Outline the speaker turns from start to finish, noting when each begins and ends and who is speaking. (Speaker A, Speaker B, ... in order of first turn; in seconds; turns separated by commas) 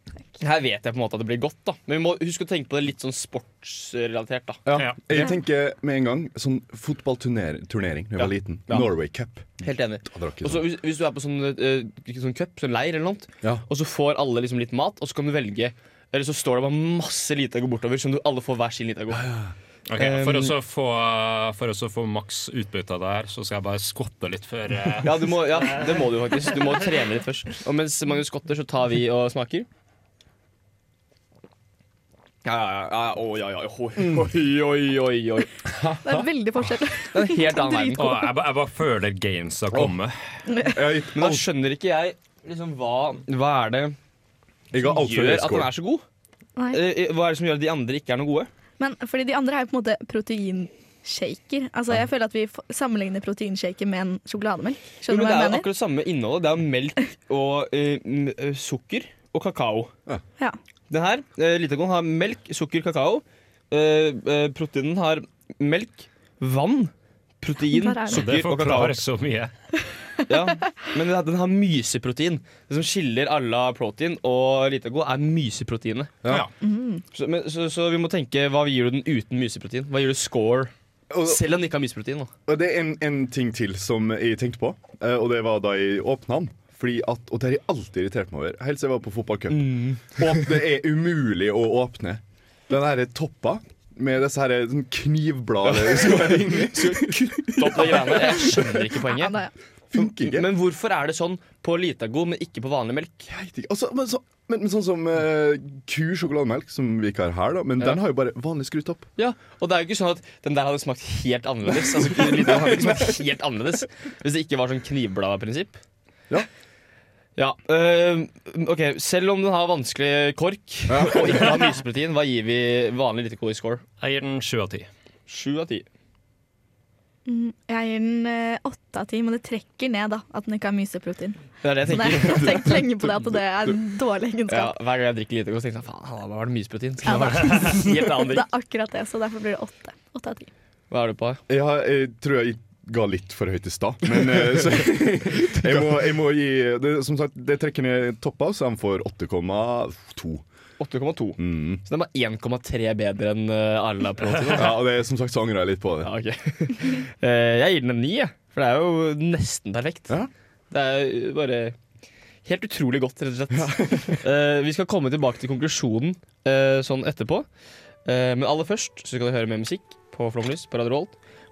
Speaker A: 0.4-4.6, Speaker B: 4.7-10.7, Speaker C: 4.7-5.0, Speaker A: 8.2-8.9, Speaker A: 9.6-19.3, Speaker B: 19.2-19.5, Speaker C: 19.9-26.6, Speaker A: 20.0-20.6, Speaker A: 25.0-29.7, Speaker A: 32.5-35.5, Speaker B: 34.0-34.3, Speaker B: 35.7-36.3, Speaker D: 36.0-38.3, Speaker A: 37.1-38.1, Speaker C: 38.0-40.1, Speaker D: 40.5-40.8, Speaker B: 40.6-41.5, Speaker A: 41.1-44.0, Speaker B: 44.7-45.7, Speaker A: 44.8-46.0, Speaker D: 46.6-46.8, Speaker A: 46.7-48.5, Speaker D: 48.8-55.7, Speaker A: 55.1-59.9, Speaker A: 60.9-69.0, Speaker D: 67.7-68.3, Speaker C: 68.1-69.5, Speaker A: 70.3-76.1, Speaker C: 76.3-76.5, Speaker D: 76.6-77.0, Speaker A: 77.1-80.7, Speaker B: 81.1-81.4, Speaker A: 81.2-82.3, Speaker B: 82.5-98.6, Speaker A: 89.5-90.6, Speaker A: 95.6-99.4, Speaker D: 99.0-99.5, Speaker B: 99.9-100.5, Speaker A: 100.0-103.3, Speaker B: 103.3-109.1, Speaker A: 109.2-115.8, Speaker B: 112.0-113.1, Speaker A: 117.4-123.8, Speaker B: 120.9-121.7, Speaker C: 124.0-124.9, Speaker A: 125.3-125.9, Speaker D: 127.3-134.7, Speaker A: 131.6-132.9, Speaker A: 134.5-138.5, Speaker D: 137.1-140.5, Speaker A: 140.9-141.4, Speaker B: 141.5-150.4, Speaker A: 145.4-145.9, Speaker A: 150.8-154.8, Speaker B: 151.4-151.8, Speaker B: 154.5-156.1, Speaker A: 156.0-160.2, Speaker A: 160.7-161.8, Speaker A: 162.4-167.5, Speaker B: 163.5-164.2, Speaker A: 168.1-171.2